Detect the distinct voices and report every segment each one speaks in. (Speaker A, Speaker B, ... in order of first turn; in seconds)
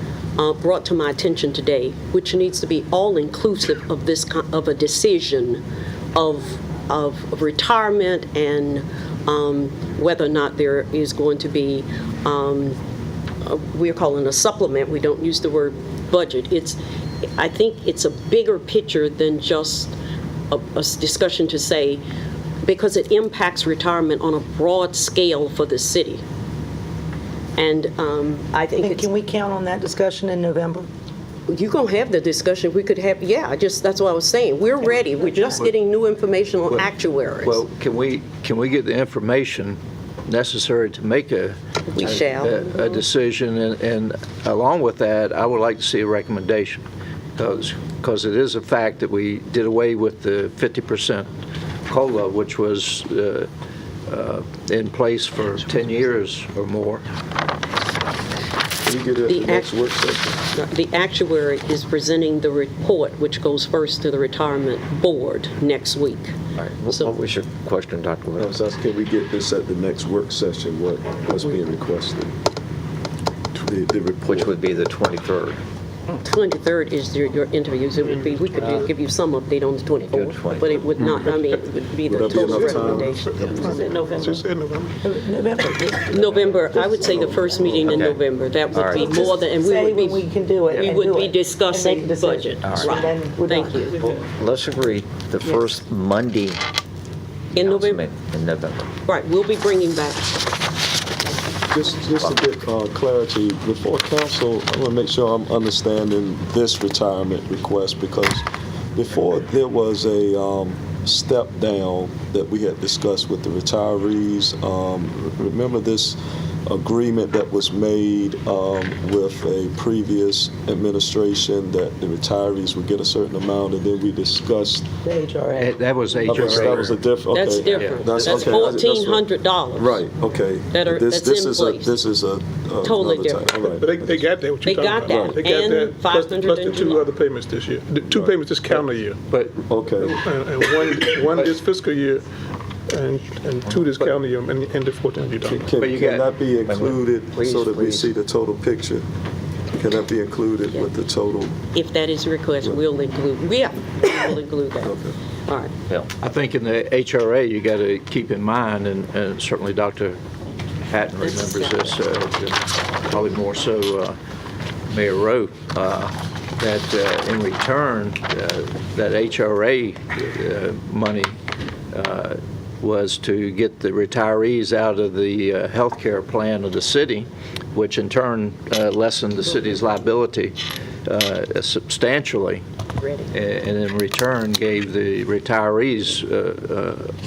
Speaker A: 0.4-5.6, 6.1-12.8, 13.4-16.8, 17.4-19.9, 20.5-22.0, 22.6-26.2, 27.6-29.1, 31.5-37.6, 41.9-42.6, 59.3-59.7, 60.5-66.3, 76.2-84.2, 85.8-94.0, 97.5-98.0, 99.1-100.4, 127.3-130.0, 130.7-131.9, 132.8-133.6, 134.6-137.0, 151.7-155.7, 161.2-161.9, 183.0-183.3
Speaker B: 28.7-30.9, 85.0-86.0, 87.5-87.8, 88.8-93.9, 95.4-95.7, 125.0-125.8
Speaker C: 37.4-46.8, 47.4-51.3, 51.9-53.5, 54.1-57.0, 90.7-90.9, 125.6-127.0, 127.7-128.5, 138.7-139.6, 141.2-141.6, 143.7-144.1, 145.7-146.3, 156.2-160.2, 160.9-164.2, 164.9-171.3, 171.9-182.6, 183.3-187.1
Speaker D: 58.8-60.4, 68.4-72.3, 73.5-74.5, 82.1-83.1, 86.8-87.5, 101.7-108.4, 108.9-124.9, 126.3-129.2, 129.8-134.1, 139.6-140.1, 145.5-149.1, 149.8-151.6, 154.8-155.1
Speaker E: 66.6-68.5, 74.2-75.6, 80.1-80.9, 87.8-88.2, 88.7-89.2, 92.6-93.1, 94.0-96.6, 97.5-98.9, 146.7-148.1
Speaker F: 78.0-78.9, 82.2-85.0, 133.6-139.2, 139.9-142.2, 142.9-145.7